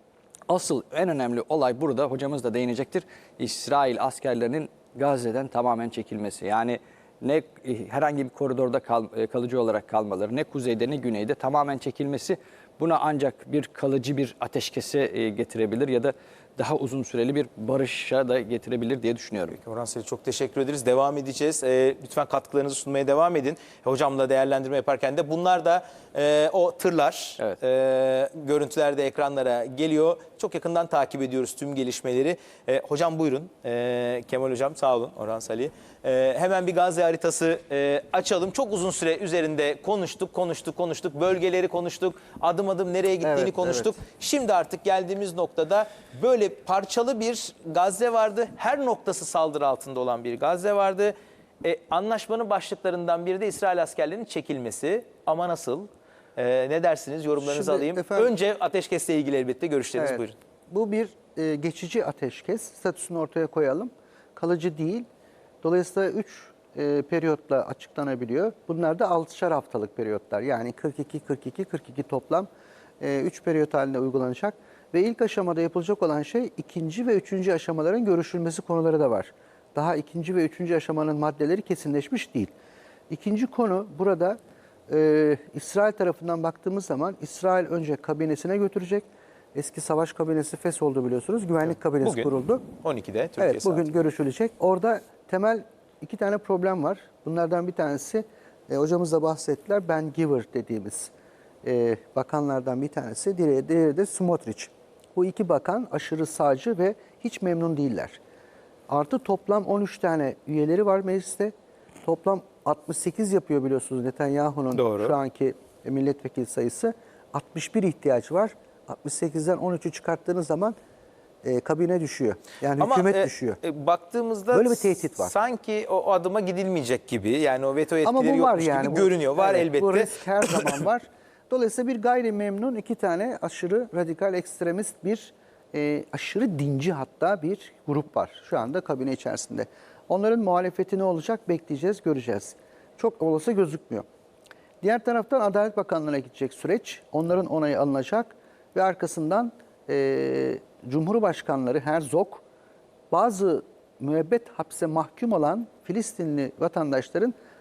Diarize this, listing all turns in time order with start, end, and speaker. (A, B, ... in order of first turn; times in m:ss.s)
0:00.5-0:19.6 A
0:19.5-1:00.4 B
0:43.2-0:44.0 C
0:57.4-0:58.3 C
1:00.0-1:05.1 C
1:05.6-1:12.5 C
1:13.0-1:22.5 C
1:23.1-1:32.6 C
1:32.0-1:33.8 B
1:33.4-1:41.1 C
1:41.6-1:48.2 C
1:48.9-1:51.5 C
1:52.0-2:00.8 C
1:54.7-1:55.1 B
2:01.4-2:03.6 C
2:02.8-2:10.8 B
2:04.5-2:05.3 C
2:08.0-2:24.0 C
2:24.8-2:32.4 C
2:33.1-2:37.3 C